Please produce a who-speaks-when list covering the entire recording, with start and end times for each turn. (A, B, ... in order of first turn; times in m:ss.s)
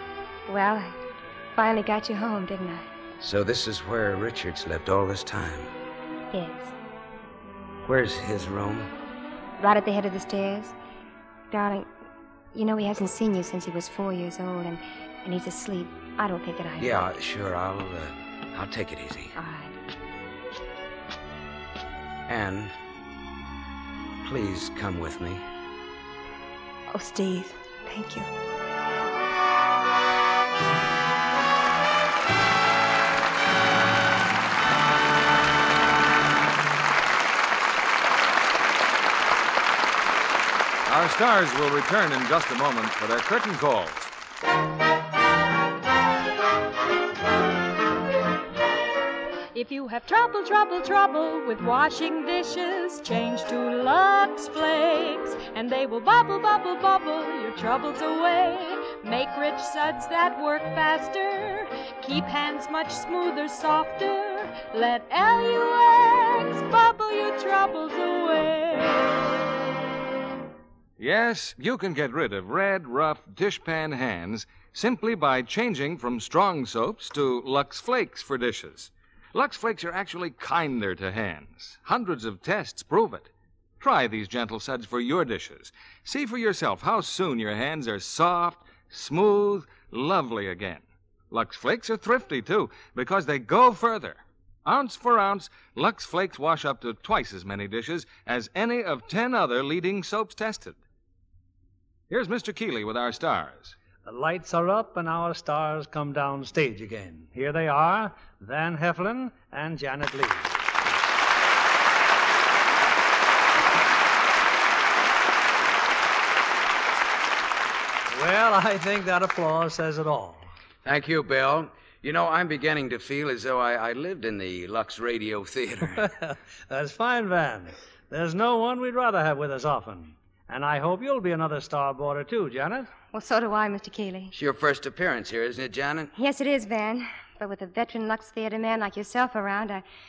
0:00.5-0:00.9 A
0:01.5-0:02.8 A
0:03.2-0:05.7 B
0:06.3-0:06.7 A
0:07.8-0:08.9 B
0:09.6-0:10.8 A
0:11.5-0:11.9 A
0:12.5-0:17.1 A
0:16.8-0:19.3 B
0:19.4-0:19.7 A
0:22.3-0:22.7 B
0:24.2-0:25.4 B
0:26.9-0:28.3 A
0:40.8-0:44.1 C
0:49.5-1:09.1 D
1:11.0-1:40.8 C
1:42.1-1:43.8 C
1:44.0-1:50.5 E
1:58.1-2:00.4 E
2:00.8-2:06.0 B
2:06.0-2:12.9 E
2:13.1-2:14.3 A
2:14.3-2:16.1 B
2:16.1-2:19.8 A